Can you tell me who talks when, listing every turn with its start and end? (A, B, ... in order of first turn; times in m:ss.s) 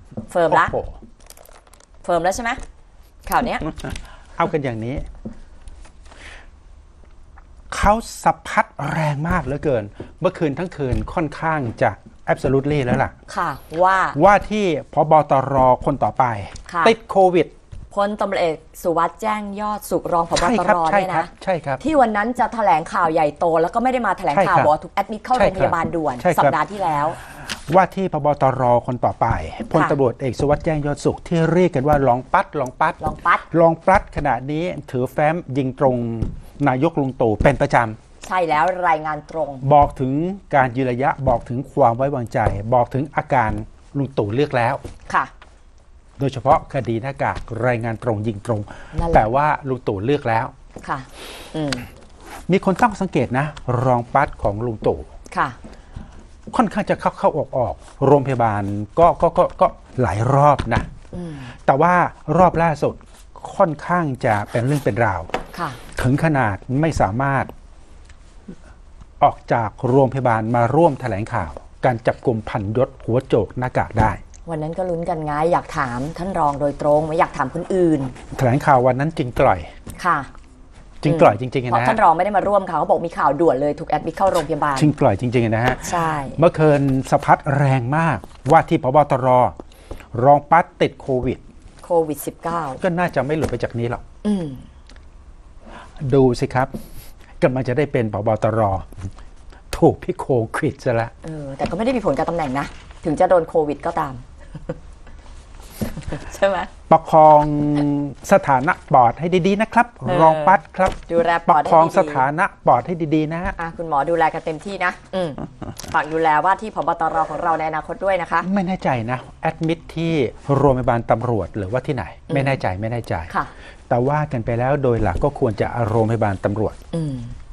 0:00.3-0:00.8 A
0:00.5-0:01.0 B
0:02.0-0:02.6 A
0:03.3-0:03.7 A
0:04.4-0:05.1 B
0:07.7-0:13.1 B
0:13.3-0:14.2 A
0:14.2-0:17.5 B
0:16.7-0:16.9 A
0:17.9-0:27.2 A
0:20.4-0:21.8 B
0:24.3-0:24.7 B
0:25.3-0:26.6 B
0:27.4-0:38.0 B
0:29.7-0:30.0 A
0:33.0-0:33.5 A
0:38.2-0:39.6 A
0:39.6-0:44.8 B
0:46.2-0:50.5 B
0:48.9-0:49.3 A
0:50.8-0:51.9 A
0:52.5-0:55.1 B
0:55.3-0:55.6 A
0:56.5-1:00.9 B
1:01.1-1:01.5 A
1:01.6-1:05.3 B
1:05.5-1:05.8 A
1:05.9-1:07.5 B
1:09.2-1:14.2 B
1:14.5-1:18.2 A
1:18.3-1:19.7 B
1:20.0-1:20.3 A
1:21.0-1:22.0 B
1:21.1-1:24.9 A
1:24.8-1:29.6 B
1:25.8-1:26.4 A
1:30.1-1:31.4 B
1:31.8-1:32.8 A
1:32.8-1:34.0 B
1:34.2-1:34.6 A
1:36.0-1:36.7 B
1:37.4-1:38.9 B
1:39.7-1:41.1 B
1:41.2-1:44.7 A
1:45.9-1:46.7 A
1:46.9-1:53.6 B
1:50.1-1:52.3 A
1:53.6-1:58.5 A
1:58.4-2:03.3 B
2:02.3-2:02.6 A
2:03.9-2:06.8 B
2:06.9-2:07.4 A